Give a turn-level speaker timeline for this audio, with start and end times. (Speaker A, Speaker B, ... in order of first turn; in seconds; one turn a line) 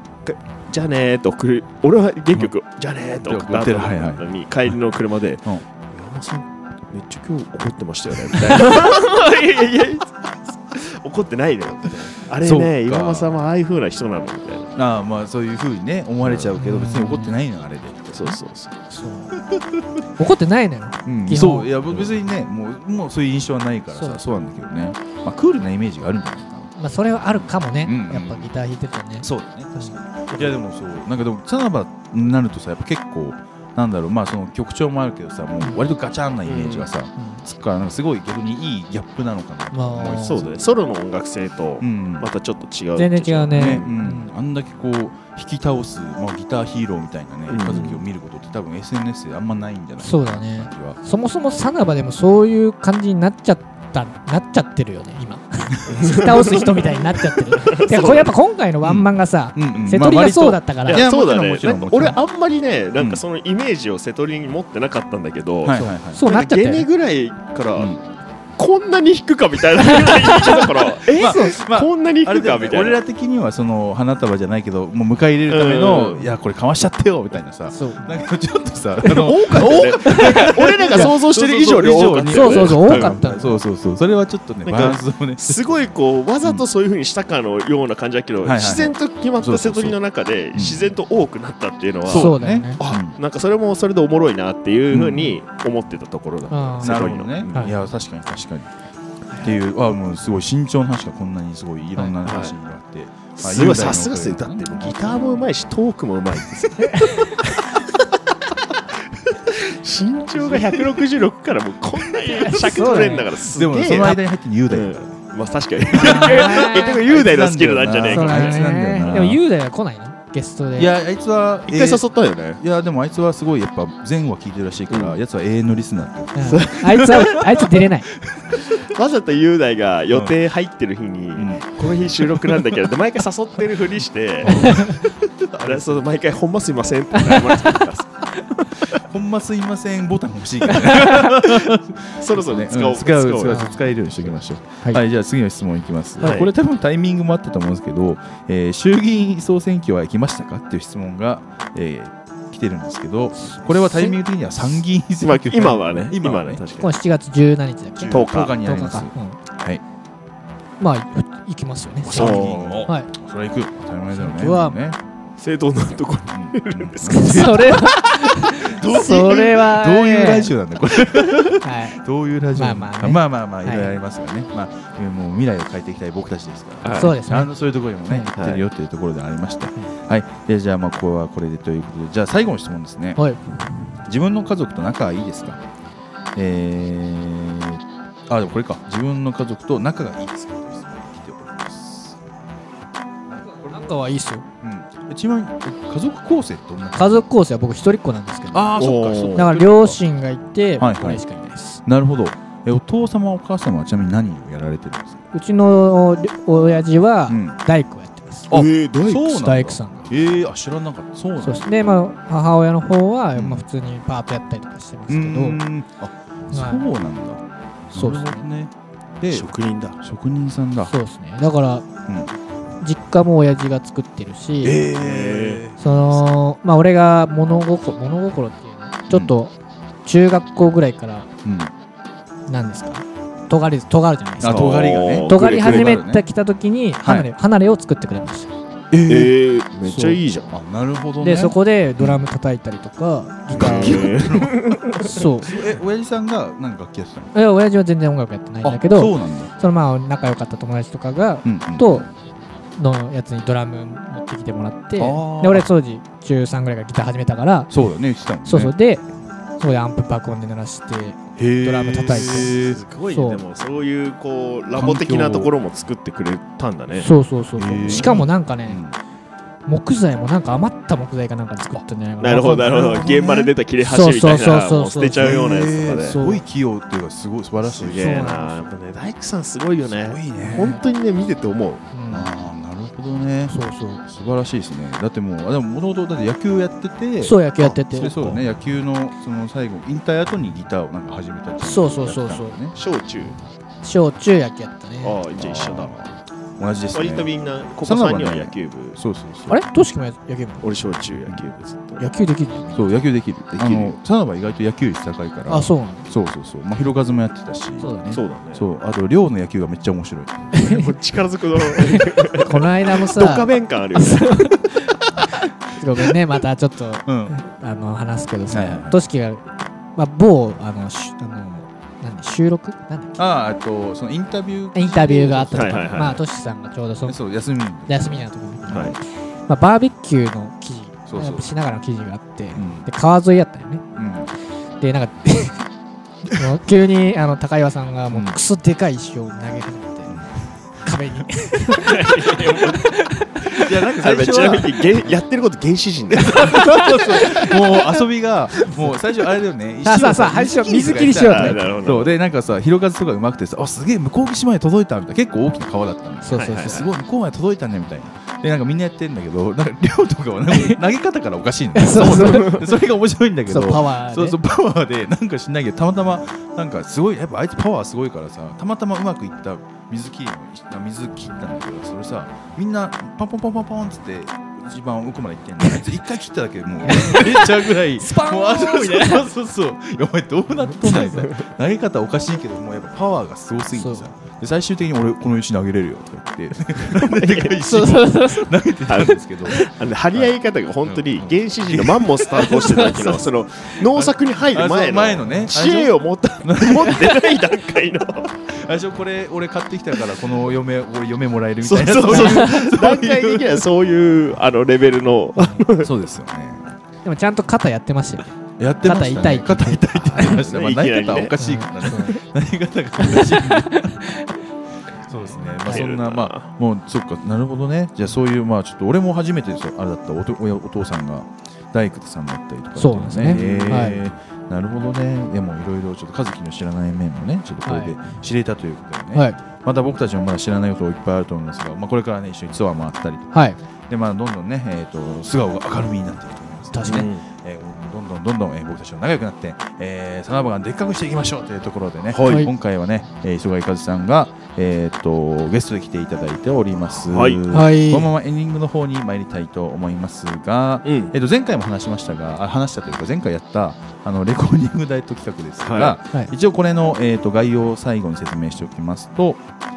Speaker A: 0.2-14.7
Speaker B: 3.2-4.7
Speaker B: 12.4-13.4
Speaker B: 14.7-18.4
Speaker A: 16.2-16.6
Speaker C: 16.6-17.3
Speaker A: 18.1-18.8
Speaker C: 18.9-19.4
Speaker B: 19.5-20.0
Speaker C: 20.1-21.7
Speaker B: 21.1-26.7
Speaker C: 23.9-24.2
Speaker C: 26.8-29.9
Speaker B: 27.3-28.5
Speaker B: 29.2-40.6
Speaker A: 30.3-30.6
Speaker A: 36.5-36.9
Speaker C: 37.1-37.4
Speaker C: 39.7-40.4
Speaker A: 40.2-43.9
Speaker B: 41.8-42.3
Speaker C: 43.0-44.3
Speaker B: 43.5-51.0
Speaker A: 47.5-48.0
Speaker C: 50.0-61.1
Speaker A: 55.9-58.3
Speaker B: 58.8-62.2
Speaker A: 60.9-68.0
Speaker B: 65.6-66.2
Speaker C: 65.7-66.9
Speaker A: 68.6-73.0
Speaker C: 69.9-71.6
Speaker B: 71.1-85.7
Speaker A: 75.5-76.3
Speaker C: 77.7-78.0
Speaker A: 79.2-83.5
Speaker C: 79.6-81.1
Speaker C: 82.3-83.5
Speaker A: 84.6-97.7
Speaker B: 88.4-90.0
Speaker B: 90.5-90.9
Speaker B: 92.1-93.2
Speaker C: 92.1-92.8
Speaker B: 94.9-95.3
Speaker C: 96.5-97.7
Speaker B: 96.8-98.7
Speaker B: 99.4-105.5
Speaker A: 102.2-102.6
Speaker A: 103.4-107.8
Speaker C: 106.8-107.3
Speaker A: 109.5-119.3
Speaker B: 110.5-110.8
Speaker C: 112.3-113.3
Speaker B: 113.5-115.2
Speaker B: 115.9-119.4
Speaker C: 115.9-117.0
Speaker C: 118.1-120.9
Speaker B: 120.8-122.0
Speaker A: 121.7-122.6
Speaker B: 122.6-128.8
Speaker A: 124.9-125.2
Speaker C: 126.3-128.1
Speaker A: 126.4-127.2
Speaker A: 128.6-134.8
Speaker B: 131.4-132.9
Speaker B: 134.4-136.1
Speaker C: 134.5-135.0
Speaker A: 135.6-138.6
Speaker B: 138.9-156.6
Speaker C: 140.9-141.2
Speaker A: 141.3-144.4
Speaker C: 143.5-143.8
Speaker A: 146.2-146.5
Speaker C: 153.4-154.2
Speaker A: 155.2-156.9
Speaker C: 156.8-159.4
Speaker B: 158.0-159.8
Speaker A: 158.1-158.6
Speaker C: 160.8-163.1
Speaker A: 162.1-162.9
Speaker B: 162.1-165.0
Speaker C: 164.1-164.8
Speaker A: 165.4-167.5
Speaker B: 166.3-183.2
Speaker C: 167.0-170.5
Speaker C: 171.4-172.0
Speaker C: 172.6-173.9
Speaker A: 176.8-177.1
Speaker C: 176.9-177.5
Speaker A: 178.3-178.6
Speaker B: 184.1-185.6
Speaker B: 186.3-192.2
Speaker B: 193.3-193.9
Speaker C: 193.5-194.4
Speaker B: 194.6-197.3
Speaker C: 196.9-198.8
Speaker B: 198.5-200.0
Speaker A: 198.8-199.5
Speaker C: 199.3-201.8
Speaker B: 200.8-201.2
Speaker B: 201.8-205.2
Speaker C: 205.3-208.5
Speaker B: 207.3-207.6
Speaker B: 208.5-211.9
Speaker A: 208.5-209.3
Speaker C: 209.2-210.1
Speaker C: 211.4-215.6
Speaker B: 213.3-213.6
Speaker B: 215.1-220.9
Speaker C: 216.5-216.9
Speaker C: 217.9-218.4
Speaker A: 219.3-220.0
Speaker C: 220.9-221.9
Speaker B: 222.1-222.3
Speaker C: 222.8-224.8
Speaker B: 224.6-226.2
Speaker A: 224.9-225.6
Speaker C: 225.8-229.5
Speaker C: 230.1-231.3
Speaker B: 231.4-231.7
Speaker C: 232.5-238.5
Speaker B: 234.4-236.2
Speaker A: 234.4-236.0
Speaker B: 237.0-237.3
Speaker B: 238.9-239.3
Speaker A: 239.1-240.5
Speaker C: 239.9-240.2
Speaker B: 240.5-242.2
Speaker C: 241.2-244.4
Speaker A: 243.6-245.2
Speaker B: 243.6-247.3
Speaker C: 245.0-245.5
Speaker C: 247.3-252.1
Speaker B: 248.6-249.5
Speaker B: 251.4-252.1
Speaker C: 252.8-257.7
Speaker B: 255.0-255.7
Speaker B: 257.7-258.7
Speaker C: 258.4-259.1
Speaker C: 259.6-262.5
Speaker B: 261.4-263.4
Speaker A: 262.2-267.1
Speaker C: 263.1-263.4
Speaker B: 264.7-265.5
Speaker C: 267.0-268.8
Speaker B: 267.6-268.9
Speaker C: 269.6-272.9
Speaker A: 272.2-276.2
Speaker B: 272.6-273.5
Speaker C: 273.8-275.4
Speaker B: 275.1-278.3
Speaker C: 275.9-276.4
Speaker A: 277.6-281.9
Speaker C: 278.0-278.6
Speaker B: 279.8-280.8
Speaker C: 280.4-280.8
Speaker C: 281.9-282.3
Speaker B: 282.1-287.4
Speaker C: 283.5-284.0
Speaker C: 287.2-288.1
Speaker A: 287.6-288.4
Speaker B: 287.9-292.7
Speaker C: 291.6-292.6
Speaker A: 292.7-293.4
Speaker C: 293.8-295.2
Speaker A: 295.0-295.9
Speaker B: 295.4-297.3
Speaker A: 296.9-299.0
Speaker B: 297.8-299.6
Speaker C: 299.5-300.7
Speaker A: 300.6-302.0
Speaker C: 302.0-302.9
Speaker B: 302.7-310.6
Speaker A: 303.5-303.9
Speaker C: 305.5-306.1
Speaker C: 307.8-308.2
Speaker A: 308.1-308.6
Speaker C: 310.6-310.9
Speaker A: 310.6-314.6
Speaker C: 311.8-314.9
Speaker C: 315.8-323.2
Speaker B: 317.1-317.4
Speaker B: 318.5-319.0
Speaker B: 323.2-326.2
Speaker C: 324.7-327.2
Speaker A: 325.5-326.2
Speaker B: 327.1-328.9
Speaker C: 327.9-333.9
Speaker A: 328.7-328.9
Speaker B: 331.1-331.5
Speaker B: 332.6-332.9
Speaker B: 333.9-334.3
Speaker C: 334.8-335.6
Speaker C: 336.3-340.1
Speaker B: 338.1-338.4
Speaker C: 340.8-343.7
Speaker A: 341.8-342.9
Speaker B: 343.5-345.1
Speaker A: 344.0-346.9
Speaker B: 346.1-390.3
Speaker C: 346.4-347.9
Speaker C: 349.8-351.6
Speaker A: 350.7-352.1
Speaker C: 356.2-356.9
Speaker A: 356.3-356.8
Speaker C: 360.5-360.8
Speaker C: 361.7-362.6
Speaker A: 362.1-362.5
Speaker C: 363.5-364.4
Speaker C: 376.8-379.3
Speaker C: 380.8-381.2
Speaker A: 381.2-381.4
Speaker C: 383.7-384.1
Speaker A: 386.9-387.6
Speaker C: 387.6-388.6
Speaker A: 388.9-398.4
Speaker B: 390.9-392.9
Speaker C: 392.3-393.2
Speaker B: 393.9-397.2
Speaker C: 395.2-395.5
Speaker B: 398.5-403.5
Speaker A: 401.6-405.9
Speaker C: 402.1-402.4
Speaker B: 405.8-406.7
Speaker C: 407.0-410.4
Speaker B: 408.6-414.1
Speaker A: 409.9-411.4
Speaker C: 411.4-412.2
Speaker C: 413.0-414.3
Speaker B: 415.1-433.3
Speaker C: 415.5-415.9
Speaker A: 415.6-416.5
Speaker C: 422.8-424.0
Speaker A: 423.2-424.1
Speaker C: 427.6-428.0
Speaker C: 429.1-429.4
Speaker C: 433.3-433.6
Speaker B: 433.9-459.4
Speaker C: 436.7-437.1
Speaker A: 436.9-437.2
Speaker A: 442.1-442.4
Speaker C: 442.2-442.5
Speaker A: 446.9-447.4
Speaker C: 447.5-448.1
Speaker A: 450.9-451.1
Speaker A: 455.6-456.0